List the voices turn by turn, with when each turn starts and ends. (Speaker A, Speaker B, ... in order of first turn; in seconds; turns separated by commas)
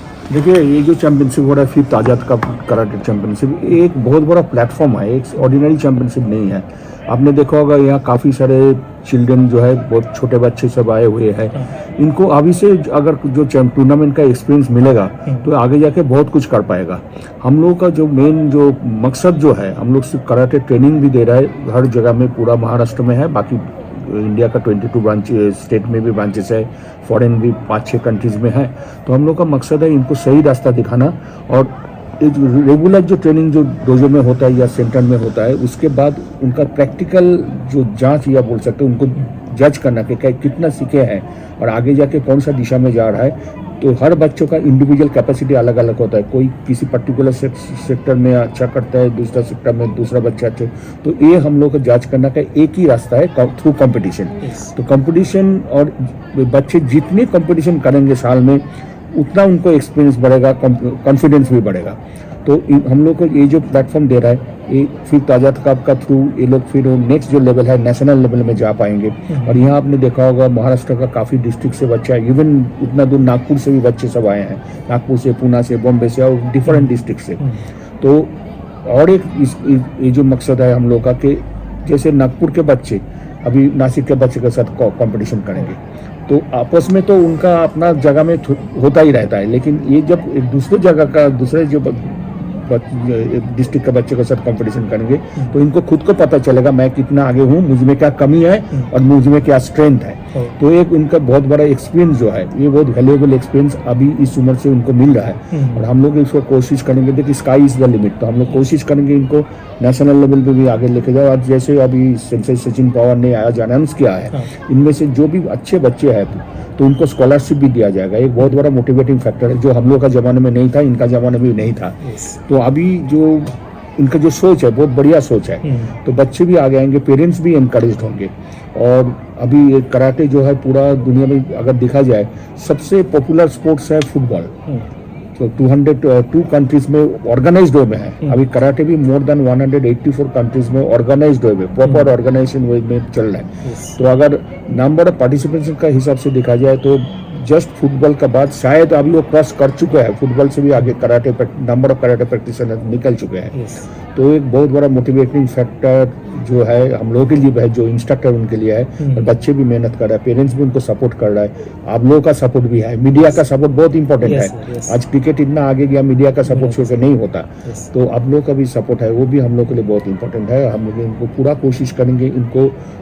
Speaker A: 0.3-77.4, Speaker B: 69.3-69.6, Speaker A: 78.0-134.5, Speaker B: 105.5-105.8, Speaker B: 122.0-122.3, Speaker B: 125.6-125.9, Speaker A: 135.4-153.6, Speaker B: 143.6-144.0, Speaker B: 153.5-153.8, Speaker A: 154.1-172.8, Speaker B: 159.0-159.3, Speaker B: 164.2-164.9, Speaker B: 166.5-166.9